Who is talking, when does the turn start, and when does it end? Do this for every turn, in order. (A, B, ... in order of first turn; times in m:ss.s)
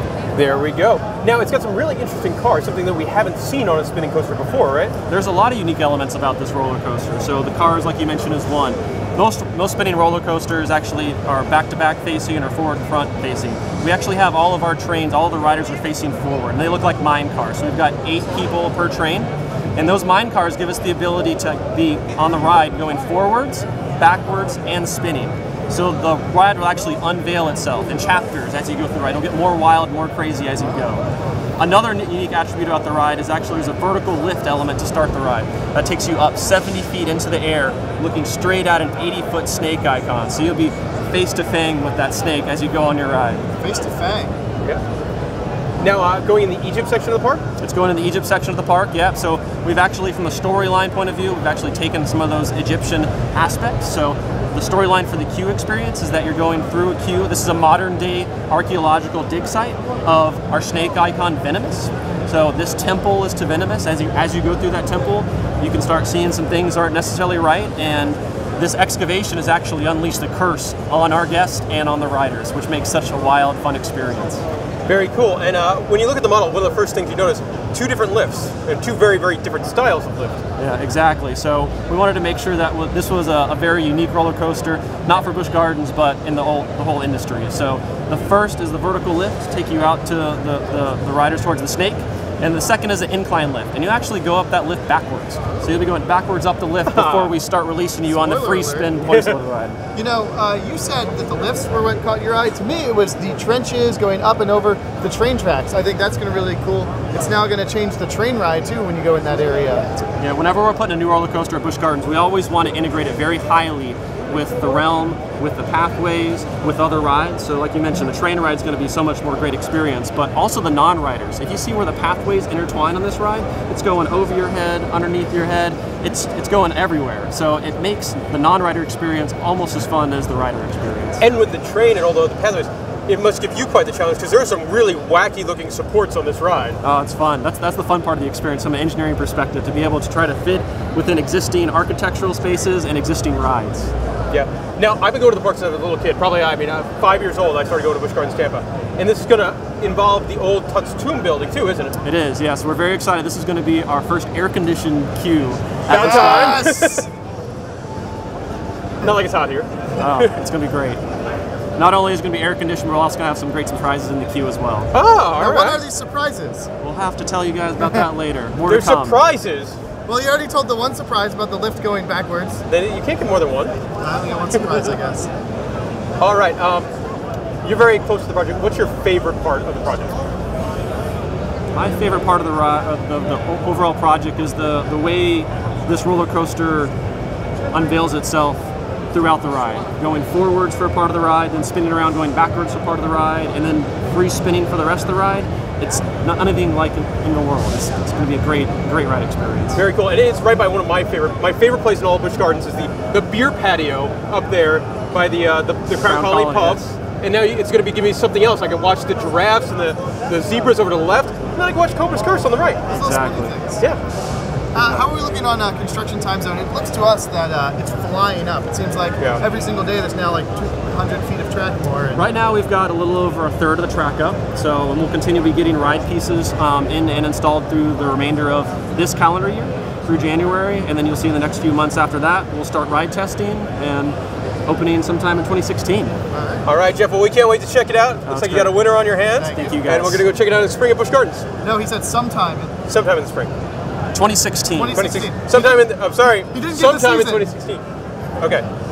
0:00.3-0:04.9 A
0:05.1-0:31.0 B
0:31.6-0:43.4 B
0:43.6-0:44.4 C
0:45.8-0:47.4 A
0:47.6-1:14.4 B
1:14.8-1:20.4 A
1:20.6-1:39.8 B
1:36.9-1:37.4 A
1:38.0-1:39.0 C
1:39.1-1:39.3 A
1:39.9-1:50.0 C
1:50.2-2:11.2 B
2:11.2-2:16.8 A
2:16.8-2:23.9 B
2:24.3-2:32.0 A
2:32.0-2:36.7 B
2:35.9-2:37.1 A
2:35.9-2:37.0 C
2:39.0-2:40.3 A
2:40.0-2:41.0 B
2:41.8-2:44.9 B
2:44.9-2:45.8 A
2:45.4-2:46.7 C
2:46.8-2:49.2 B
2:48.6-2:49.8 A
2:50.0-2:52.6 C
2:52.7-2:53.8 A
2:54.0-2:55.3 C
2:56.2-2:56.9 A
2:57.6-3:00.2 A
3:01.7-3:06.9 B
3:07.7-3:19.8 B
3:19.7-3:32.9 A
3:26.0-3:27.0 B
3:32.9-3:33.8 C
3:32.9-3:33.6 B
3:34.7-3:42.2 C
3:34.8-3:35.0 B
3:39.2-3:39.4 A
3:42.1-3:56.2 B
3:56.3-3:56.7 C
3:56.6-4:01.4 A
3:58.2-4:00.2 B
3:59.4-3:59.8 C
4:01.6-4:02.8 C
4:02.8-4:03.5 A
4:04.1-4:05.1 B
4:04.7-4:05.8 C
4:04.9-4:07.8 A
4:06.5-4:07.4 C
4:08.4-4:08.6 A